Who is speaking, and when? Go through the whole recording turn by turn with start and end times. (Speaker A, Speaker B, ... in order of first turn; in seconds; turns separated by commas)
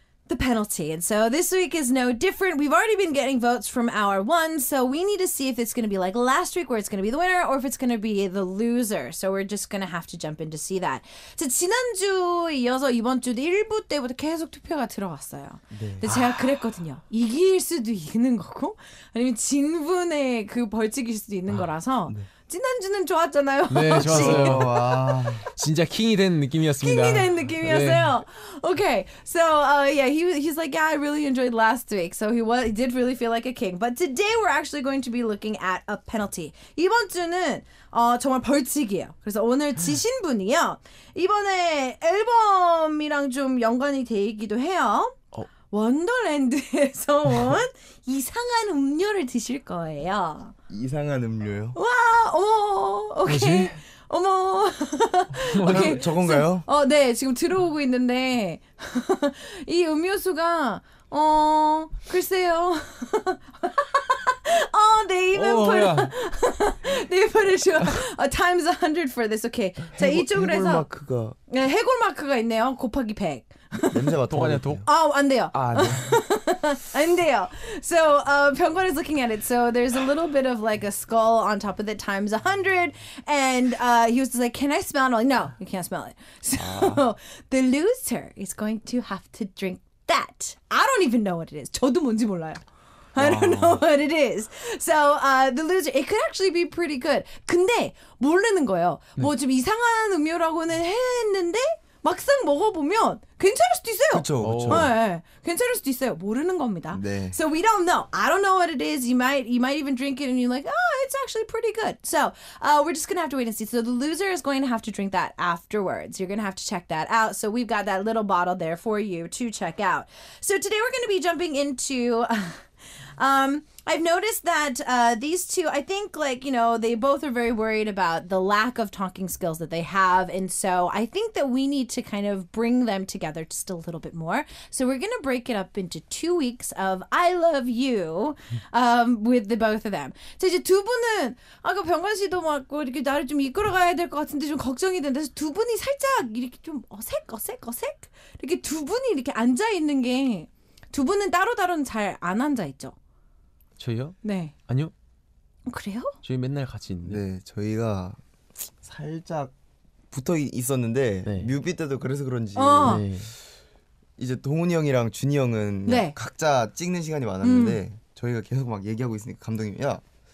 Speaker A: 0.3-24.8, Speaker B: 15.7-16.1, Speaker C: 16.1-16.6, Speaker C: 23.7-24.9, Speaker B: 23.9-25.4, Speaker C: 25.5-28.1, Speaker A: 26.8-45.1, Speaker A: 45.7-50.5, Speaker B: 50.7-51.8, Speaker A: 51.7-70.9, Speaker C: 53.2-53.8, Speaker C: 55.4-56.0, Speaker B: 55.6-56.6, Speaker C: 65.3-66.1, Speaker B: 69.9-71.4, Speaker A: 71.5-74.0, Speaker B: 73.9-74.9, Speaker C: 74.3-74.8, Speaker A: 74.8-92.6, Speaker B: 75.5-76.1, Speaker C: 86.6-87.0, Speaker A: 93.1-152.9, Speaker C: 93.2-93.8, Speaker B: 104.1-104.9, Speaker C: 104.4-104.9, Speaker B: 106.9-107.4, Speaker C: 153.8-154.2, Speaker A: 154.2-154.5, Speaker C: 154.7-154.9, Speaker A: 155.7-156.2, Speaker C: 156.2-157.2, Speaker B: 157.0-159.5, Speaker B: 160.1-163.1, Speaker C: 161.2-161.5, Speaker A: 162.6-163.0, Speaker C: 162.8-163.3, Speaker B: 164.2-170.0, Speaker A: 165.9-166.1, Speaker A: 167.4-167.8